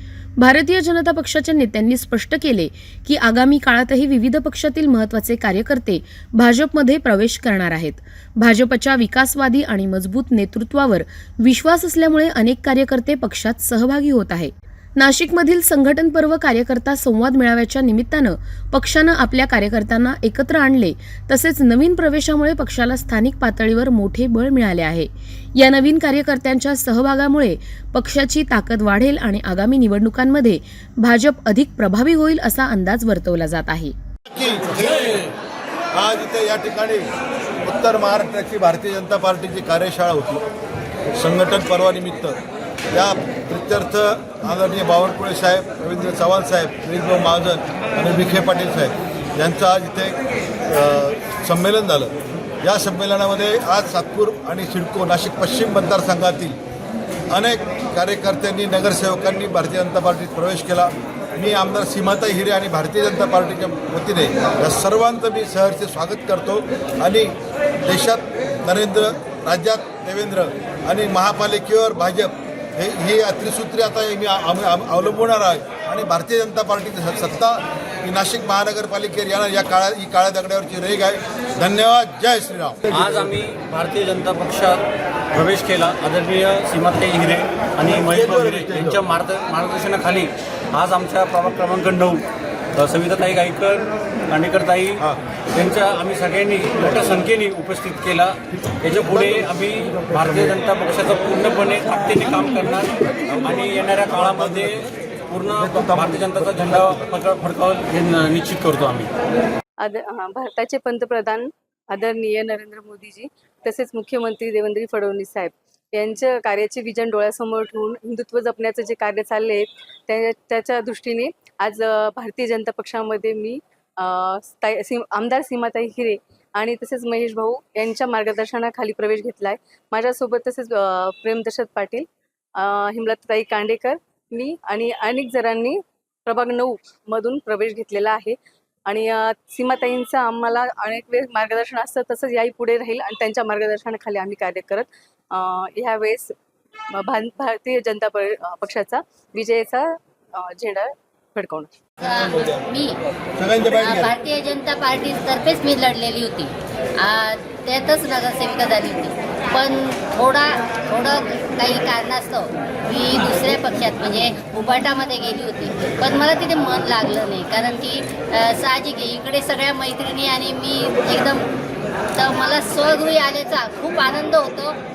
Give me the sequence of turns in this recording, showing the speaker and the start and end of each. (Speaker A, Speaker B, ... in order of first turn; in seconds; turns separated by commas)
Speaker A: 0.4-33.9, Speaker B: 34.3-35.2, Speaker B: 35.9-37.1, Speaker B: 37.6-40.4, Speaker B: 41.1-42.4, Speaker B: 42.9-56.6, Speaker B: 57.3-67.3, Speaker B: 67.8-82.8, Speaker C: 82.9-84.8, Speaker C: 85.3-92.2, Speaker B: 87.9-89.0, Speaker C: 92.8-95.0, Speaker C: 95.5-109.1, Speaker D: 109.8-146.3, Speaker D: 146.9-151.7, Speaker E: 152.0-153.0, Speaker B: 153.3-154.1, Speaker E: 153.8-171.4, Speaker E: 172.2-174.8